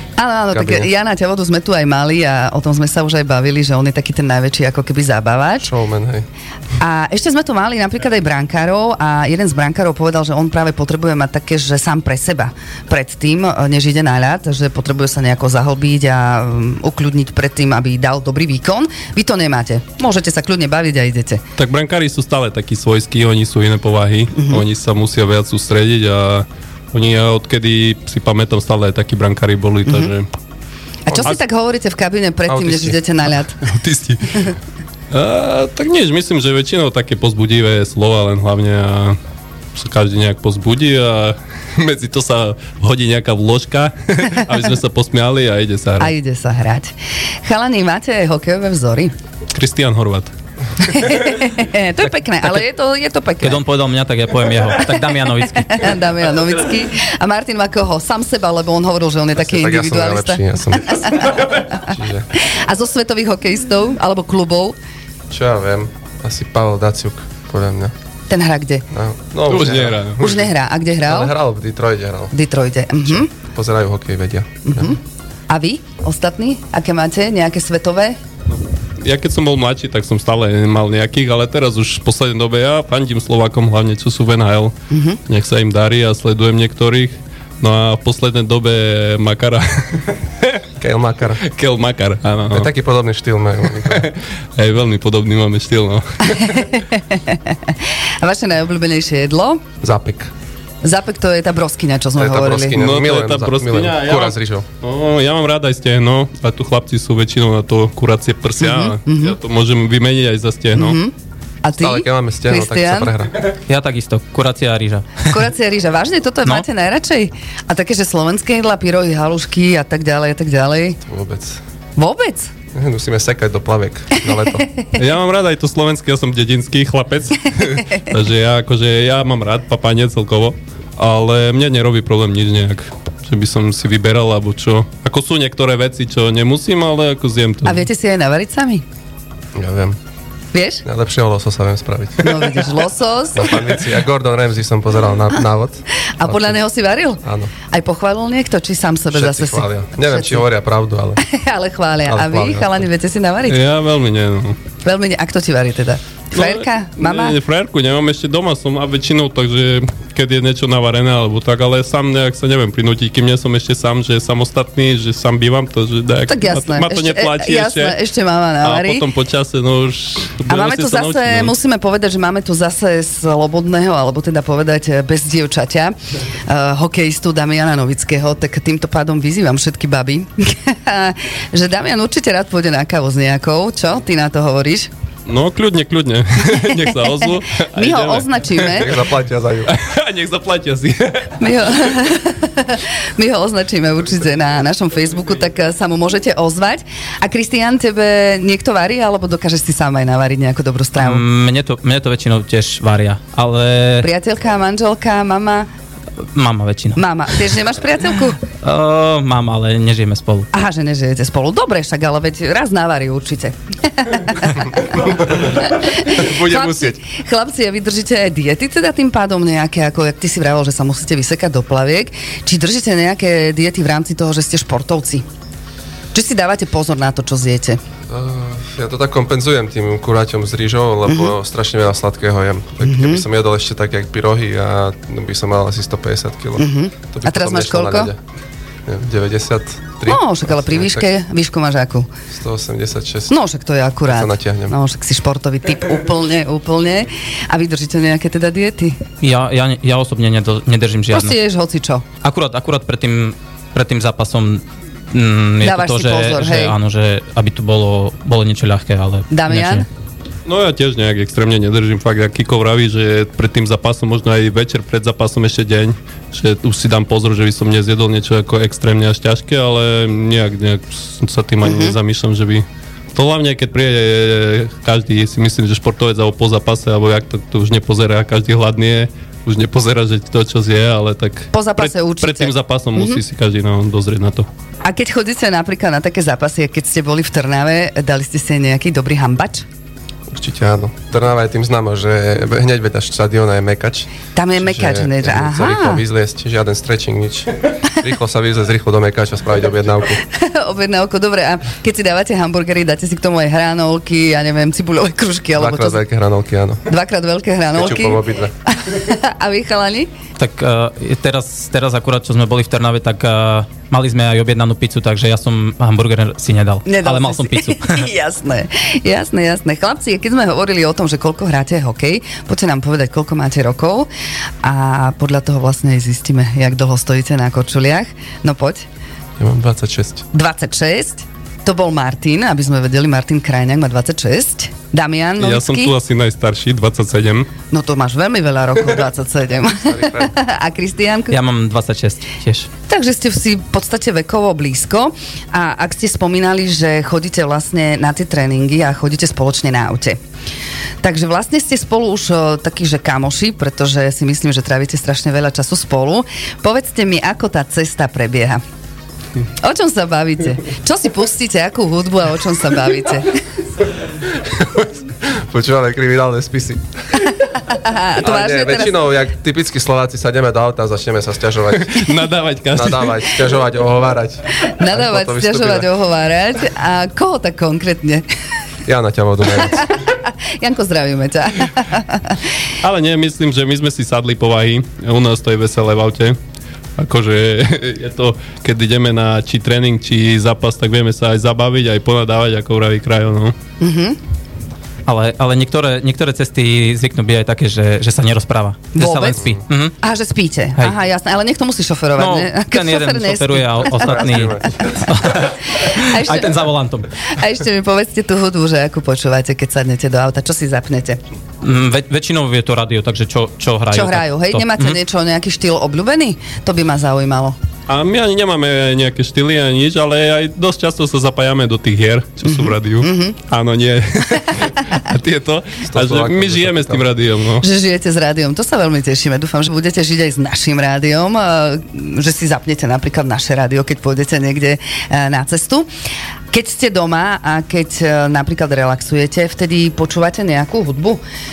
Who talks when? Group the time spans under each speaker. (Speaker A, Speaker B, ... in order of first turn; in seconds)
Speaker A: 0.2-5.7, 6.8-21.4, 24.4-24.6, 31.1-33.6, 46.0-49.1, 50.8-53.6, 55.1-61.8, 62.3-64.8, 68.3-68.8, 70.2-71.3, 72.3-73.3, 74.7-78.2, 84.9-85.2, 96.3-99.6, 100.8-102.8, 108.6-109.4, 110.8-113.1, 115.3-121.0, 122.0-122.5, 137.7-138.8, 140.5-140.8, 142.2-143.6, 146.2-150.5, 151.2-153.6, 154.8-157.4, 166.3-169.1, 170.5-184.9, 186.9-187.1, 187.7-188.9, 191.4-201.2, 204.0-205.7, 206.9-208.4, 210.5-225.2, 226.1-227.8, 232.8-233.2, 236.6-238.1, 240.1-242.1, 243.3-249.0, 251.1-252.1, 255.6-256.8, 259.3-259.9, 271.6-272.0, 281.5-283.2, 284.9-289.7, 294.4-296.0, 300.3-306.0, 306.9-310.1, 316.9-324.1, 324.6-328.9, 330.3-335.9, 337.7-341.4, 342.9-350.2, 351.0-358.6, 359.6-363.4, 367.4-368.9, 374.6-378.3, 379.7-382.4, 393.8-394.2, 399.0-406.6, 407.2-411.2, 413.9-417.6, 422.4-423.4, 427.6-435.9, 436.5-441.2
Speaker B: 0.5-0.9, 5.6-6.3, 32.5-33.0, 59.4-61.2, 61.8-62.3, 65.3-67.9, 68.9-70.5, 71.0-72.3, 73.1-75.0, 90.8-91.4, 92.5-94.1, 99.8-100.3, 102.2-104.7, 111.8-113.4, 121.0-121.6, 122.7-124.7, 139.6-140.0, 140.8-142.7, 143.3-146.6, 147.2-147.5, 149.1-151.2, 152.1-152.7, 188.7-189.7, 215.0-217.0, 228.1-238.2, 238.9-241.1, 242.3-243.3, 244.1-244.8, 290.3-300.2, 305.6-306.9, 307.7-308.5, 329.4-330.3, 339.8-340.3, 364.3-366.9, 368.2-372.1, 372.7-375.9, 378.9-379.9, 403.9-405.3, 425.9-427.1
Speaker C: 21.6-30.3, 33.6-34.5, 35.1-39.2, 39.8-46.1, 49.5-50.3, 69.5-70.3, 78.5-84.8, 85.3-90.6, 91.4-92.7, 93.8-96.8, 102.7-111.0, 125.0-137.9, 153.5-154.6, 156.3-168.0, 168.6-171.5, 185.3-188.9, 189.7-191.9, 260.5-284.5, 335.4-337.5, 371.8-373.2, 382.8-386.4, 387.0-393.6, 417.9-427.7
Speaker D: 53.4-56.0, 113.7-115.3, 201.0-204.1, 206.3-207.0, 208.6-210.5, 249.2-251.4, 252.2-259.9, 310.4-318.1, 341.3-342.7, 395.1-399.9, 402.2-407.1, 411.6-415.0